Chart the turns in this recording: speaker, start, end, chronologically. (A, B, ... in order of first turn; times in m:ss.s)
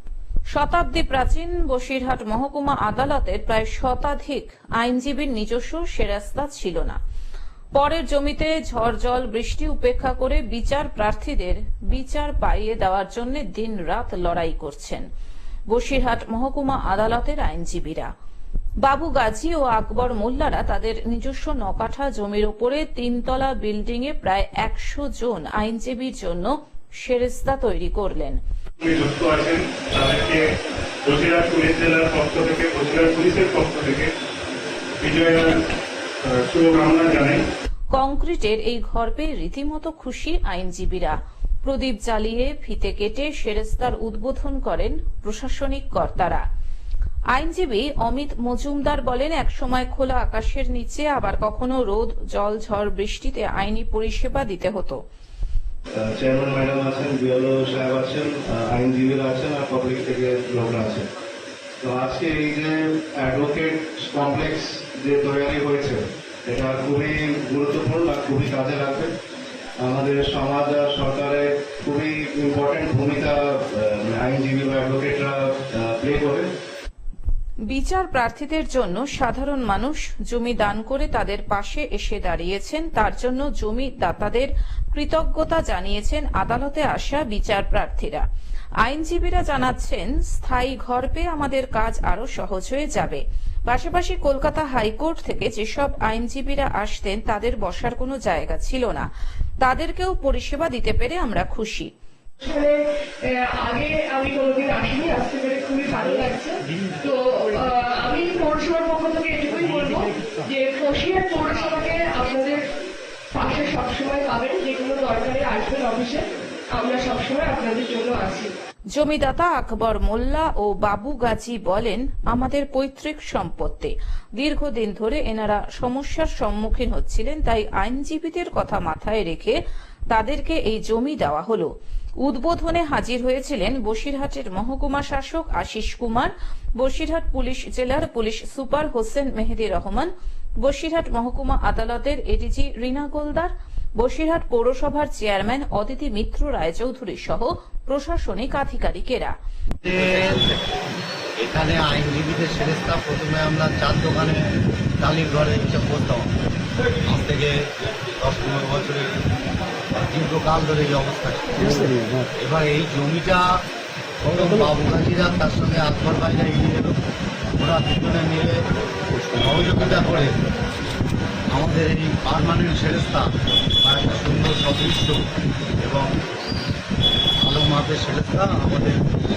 0:00.5-0:07.0 A
0:07.7-0:15.0 A
0:15.7-0:18.1 A
0:18.8-0:28.4 A
0:28.8-0:30.4 B
0:31.0-0:34.1 B
0:35.0-0:35.6 B
0:36.2-0:37.4 B
0:37.9-0:46.4 A
0:47.3-0:55.0 A
0:56.0-1:01.1 C
1:01.8-1:09.1 C
1:09.8-1:16.5 C
1:17.7-1:28.2 A
1:28.8-1:39.1 A
1:39.6-1:41.9 A
1:42.4-1:42.8 D
1:43.3-1:52.6 D
1:53.3-1:56.2 D
1:56.8-1:58.5 D
1:58.9-2:09.6 A
2:10.1-2:11.7 A
2:12.2-2:20.1 A
2:20.6-2:29.3 A
2:29.8-2:30.6 E
2:31.4-2:34.4 E
2:35.0-2:36.3 E
2:37.0-2:39.3 E
2:39.9-2:43.6 E
2:44.3-2:47.0 E
2:47.6-2:48.6 E
2:49.4-2:50.4 E
2:51.5-2:53.3 E
2:53.8-2:55.2 E
2:55.8-2:56.1 E
2:57.4-2:59.0 E